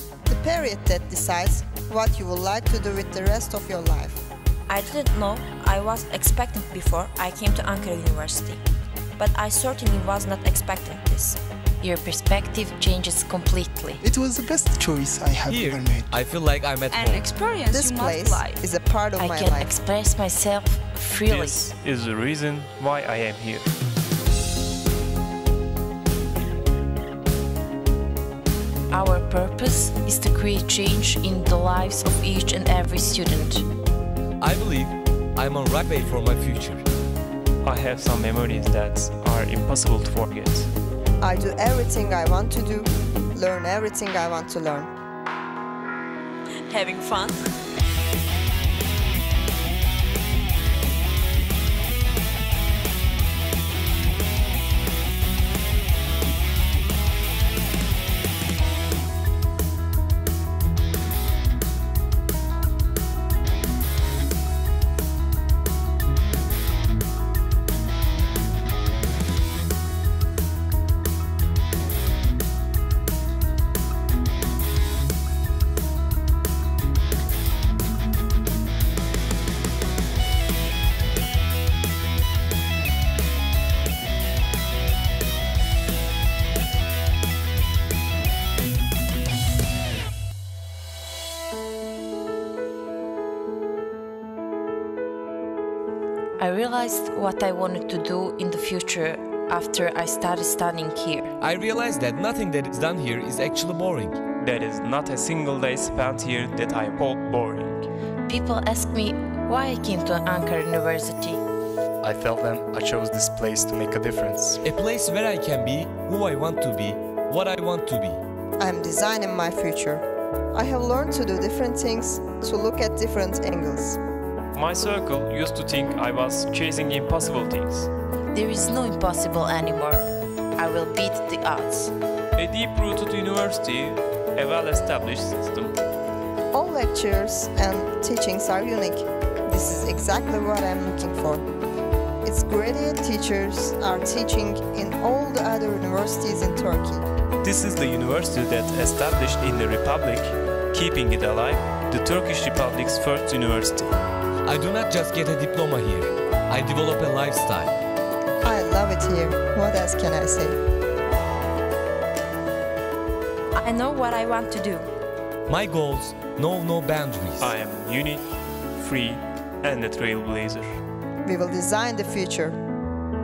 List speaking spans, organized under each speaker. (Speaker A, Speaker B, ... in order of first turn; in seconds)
Speaker A: 0.3-4.2, 17.7-19.7, 41.2-44.9, 118.6-124.0, 136.5-141.4, 142.2-147.1, 158.4-160.6, 171.2-172.6
Speaker B: 4.7-8.6, 9.2-11.4, 163.6-164.8
Speaker C: 11.8-14.0, 19.2-21.6, 28.9-33.7, 96.4-101.3, 108.3-111.4, 128.3-130.0, 130.6-131.9, 163.6-164.4
Speaker D: 14.0-16.2
Speaker E: 15.5-17.3, 34.4-36.9, 101.4-104.2, 114.6-118.2, 154.4-157.8, 165.5-167.5
Speaker F: 16.9-18.6, 46.6-47.5
Speaker G: 21.3-23.7, 37.6-40.7, 104.4-107.9, 124.5-127.9, 132.4-135.8, 147.4-153.9, 167.4-170.8
Speaker H: 112.0-114.6